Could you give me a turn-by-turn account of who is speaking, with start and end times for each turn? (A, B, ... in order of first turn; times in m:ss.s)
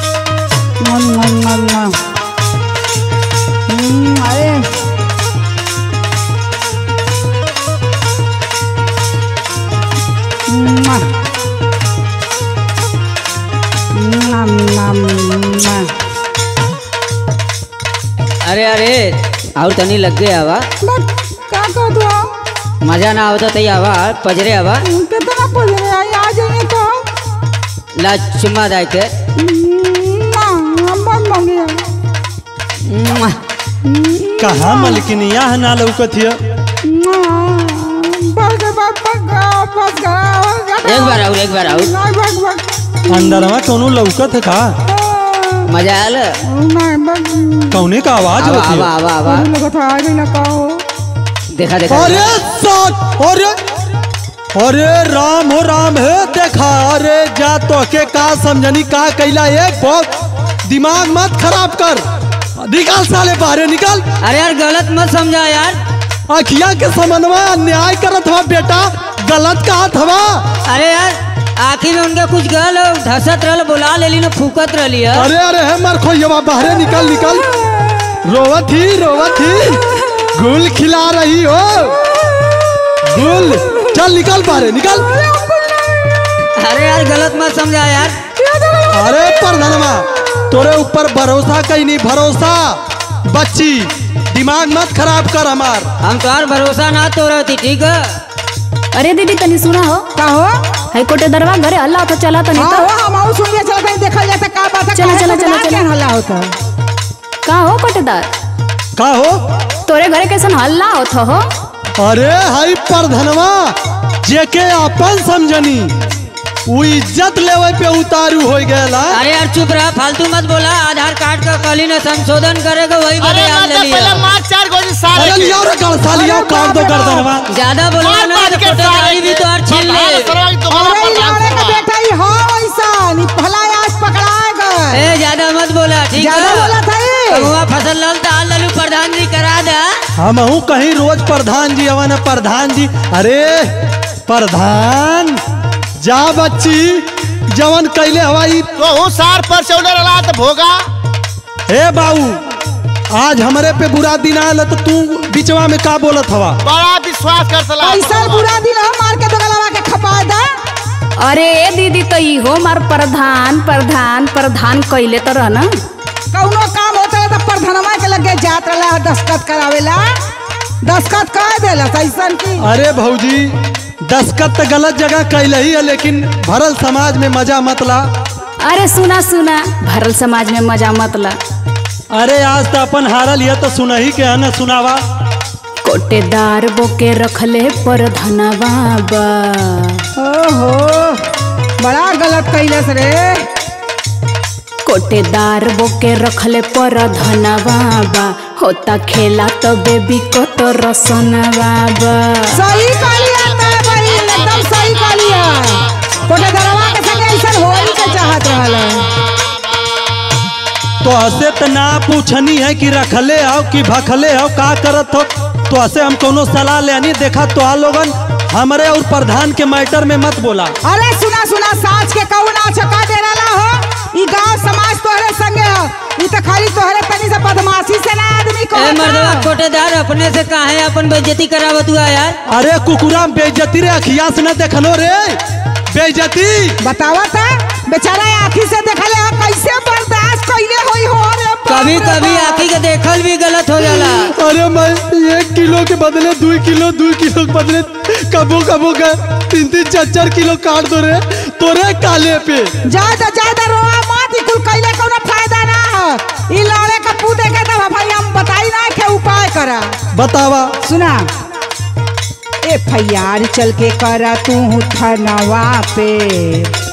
0:00.8-0:02.0 A
0:03.7-0:04.7 A
0:10.5-0:11.1 A
0:13.9-0:15.9 A
0:18.4-0:20.6 B
0:20.8-0:22.3 A
0:22.8-0:24.8 B
0:24.9-0:27.0 A
0:28.0-0:29.1 B
0:29.4-0:31.9 A
0:32.9-0:33.4 B
0:33.8-0:35.0 A
0:34.4-0:36.4 C
0:36.8-0:43.5 A
0:40.8-0:41.9 B
0:43.1-0:44.8 C
0:44.9-0:45.7 A
0:45.7-0:46.3 B
0:46.4-0:47.9 A
0:47.7-0:48.9 C
0:48.4-0:49.5 B
0:49.2-0:50.8 A
0:51.5-0:52.4 B
0:51.9-0:53.6 C
0:54.6-1:00.1 C
1:00.6-1:02.0 C
1:02.6-1:04.0 C
1:04.2-1:05.8 B
1:06.3-1:10.5 C
1:10.7-1:15.3 B
1:15.2-1:17.4 C
1:16.7-1:18.2 A
1:18.2-1:19.8 C
1:19.3-1:20.2 A
1:20.4-1:22.0 C
1:22.1-1:26.3 A
1:23.1-1:25.1 C
1:26.6-1:28.2 B
1:28.4-1:29.4 A
1:28.9-1:35.9 C
1:36.0-1:38.0 B
1:38.9-1:40.1 D
1:40.2-1:40.6 A
1:40.9-1:42.9 D
1:42.6-1:46.5 A
1:44.9-1:45.8 D
1:47.4-1:48.3 D
1:49.0-1:49.4 C
1:49.9-1:51.4 D
1:52.0-1:55.9 C
1:56.7-1:59.2 C
1:59.1-2:04.3 B
2:03.2-2:05.6 E
2:05.1-2:07.5 C
2:05.9-2:07.3 A
2:07.5-2:10.4 B
2:08.0-2:11.9 E
2:10.7-2:15.0 A
2:14.9-2:19.9 B
2:16.2-2:17.6 A
2:20.2-2:25.4 C
2:26.0-2:28.7 C
2:28.8-2:30.8 E
2:31.7-2:32.4 C
2:33.1-2:36.6 C
2:36.6-2:38.5 E
2:37.8-2:40.5 A
2:41.2-2:45.7 D
2:46.3-2:50.1 A
2:50.8-2:52.6 A
2:52.6-2:58.0 C
2:58.6-3:01.4 D
3:02.1-3:05.0 C
3:05.8-3:10.0 D
3:10.2-3:11.2 A
3:11.8-3:13.5 A
3:14.8-3:22.6 D
3:22.5-3:29.1 A
3:22.8-3:25.3 E
3:26.6-3:27.4 E
3:31.0-3:40.7 C
3:40.8-3:49.5 A
3:48.7-3:52.4 B
3:52.5-3:55.4 C
3:55.9-3:56.8 C
3:56.8-4:02.7 A
4:01.7-4:04.3 B
4:03.8-4:12.7 C
4:12.9-4:20.0 A
4:20.1-4:20.8 C
4:20.8-4:21.3 A
4:22.6-4:26.7 A